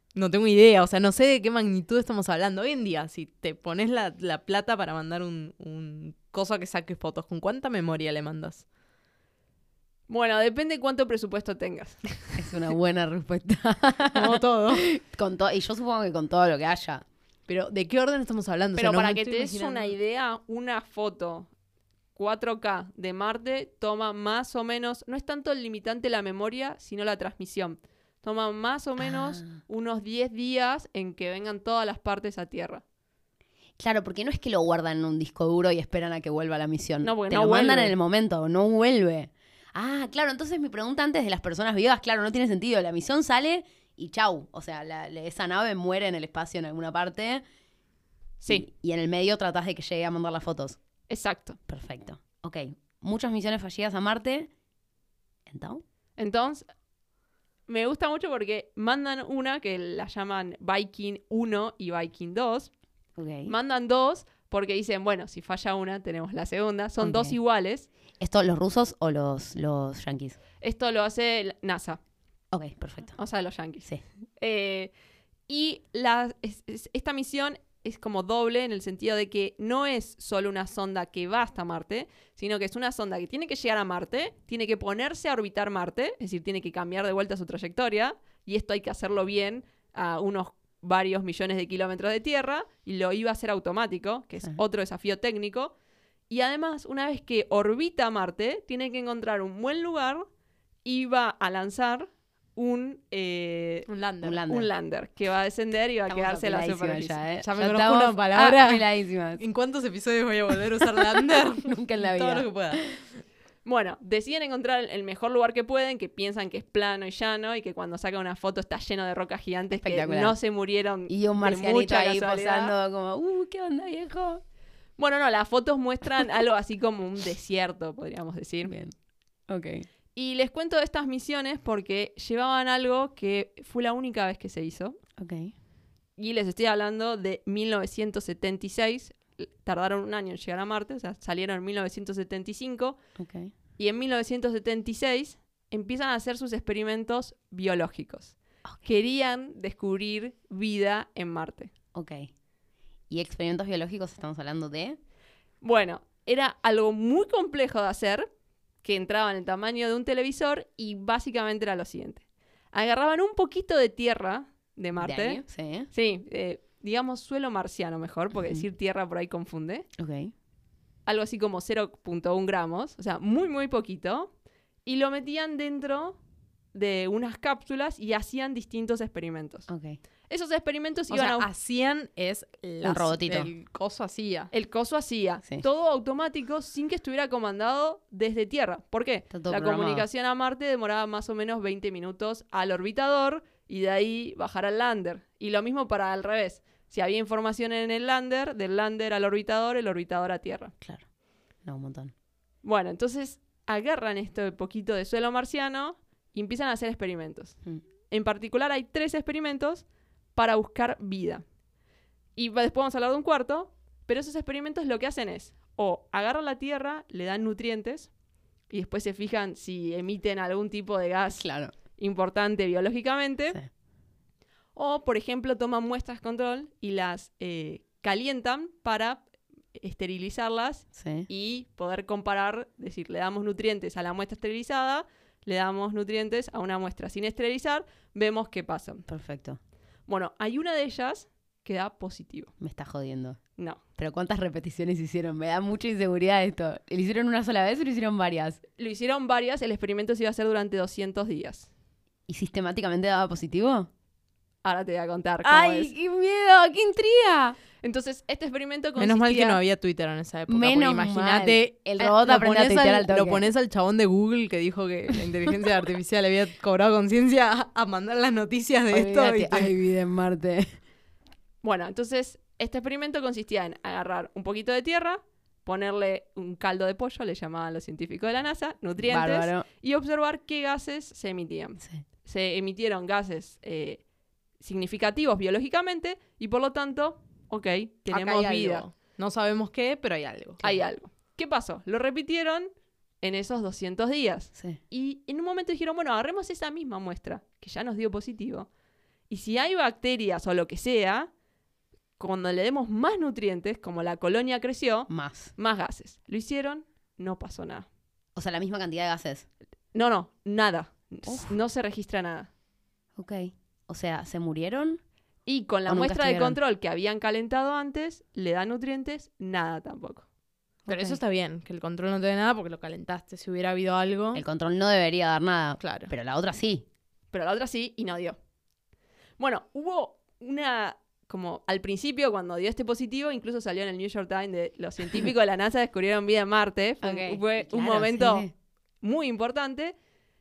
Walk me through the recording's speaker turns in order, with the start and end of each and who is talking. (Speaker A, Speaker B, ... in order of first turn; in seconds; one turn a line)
Speaker A: 0.1-8.6
Speaker B: 10.1-12.0
Speaker C: 12.4-17.0
Speaker A: 14.1-14.9
Speaker A: 17.5-19.9
Speaker B: 18.8-21.5
Speaker B: 22.1-32.8
Speaker C: 29.0-29.6
Speaker C: 33.8-47.4
Speaker B: 37.0-37.9
Speaker B: 48.4-48.6
Speaker C: 48.5-50.8
Speaker B: 51.1-51.6
Speaker C: 51.7-54.5
Speaker C: 55.5-55.8
Speaker B: 56.2-56.6
Speaker B: 57.7-62.7
Speaker C: 63.1-63.5
Speaker B: 63.5-67.9
Speaker C: 67.0-67.3
Speaker C: 68.2-70.4
Speaker B: 70.6-72.0
Speaker C: 72.5-73.2
Speaker B: 73.2-73.9
Speaker B: 74.4-74.9
Speaker B: 75.5-95.7
Speaker B: 96.3-100.2
Speaker B: 100.8-103.9
Speaker A: 103.9-104.4
Speaker C: 104.2-104.7
Speaker B: 104.5-107.2
Speaker C: 106.1-109.4
Speaker A: 107.4-108.8
Speaker A: 109.4-113.0
Speaker C: 110.8-113.0
Speaker B: 113.6-122.8
Speaker C: 119.8-120.3
Speaker C: 121.1-124.4
Speaker B: 125.0-128.7
Speaker C: 128.7-128.9
Speaker C: 129.5-129.8
Speaker B: 130.1-135.0
Speaker C: 135.2-135.5
Speaker B: 136.2-143.0
Speaker C: 143.2-143.5
Speaker B: 143.8-151.7
Speaker C: 151.9-152.3
Speaker C: 153.1-155.0
Speaker B: 155.6-158.3
Speaker B: 158.8-165.4
Speaker C: 165.0-165.9
Speaker B: 165.9-169.9
Speaker C: 170.0-170.3
Speaker B: 171.1-174.3
Speaker B: 174.8-176.2
Speaker B: 176.7-179.7
Speaker C: 179.7-180.0
Speaker B: 180.3-181.5
Speaker A: 181.1-184.5
Speaker C: 182.8-183.5
Speaker B: 184.5-200.7
Speaker C: 189.3-190.1
Speaker C: 201.6-202.1
Speaker B: 202.6-207.6
Speaker B: 208.1-211.4
Speaker B: 212.3-218.1
Speaker B: 218.7-223.6
Speaker C: 221.3-221.7
Speaker B: 224.7-229.2
Speaker B: 229.8-239.0
Speaker C: 230.9-231.3
Speaker C: 239.1-239.6
Speaker B: 240.1-242.5
Speaker C: 242.6-243.4
Speaker C: 244.0-248.6
Speaker B: 248.8-251.7
Speaker C: 252.3-253.9
Speaker B: 254.6-255.9
Speaker C: 255.4-257.6
Speaker B: 257.8-259.6
Speaker A: 259.0-269.7
Speaker C: 260.5-263.5
Speaker C: 268.9-270.7
Speaker B: 271.6-284.0
Speaker C: 279.0-279.6
Speaker B: 284.6-288.8
Speaker A: 288.1-290.6
Speaker B: 290.6-292.7
Speaker B: 293.2-298.7
Speaker C: 294.5-294.8
Speaker B: 299.3-301.3
Speaker B: 302.2-307.9
Speaker C: 305.1-305.5
Speaker C: 308.3-309.4
Speaker B: 309.9-312.5
Speaker C: 311.2-311.5
Speaker C: 313.1-315.0
Speaker B: 315.4-320.2
Speaker C: 315.9-316.6
Speaker C: 320.9-321.2
Speaker A: 320.9-324.4
Speaker C: 324.3-326.8
Speaker A: 325.8-326.1
Speaker B: 327.3-328.4
Speaker B: 329.4-338.5
Speaker C: 337.0-338.5
Speaker B: 339.0-339.9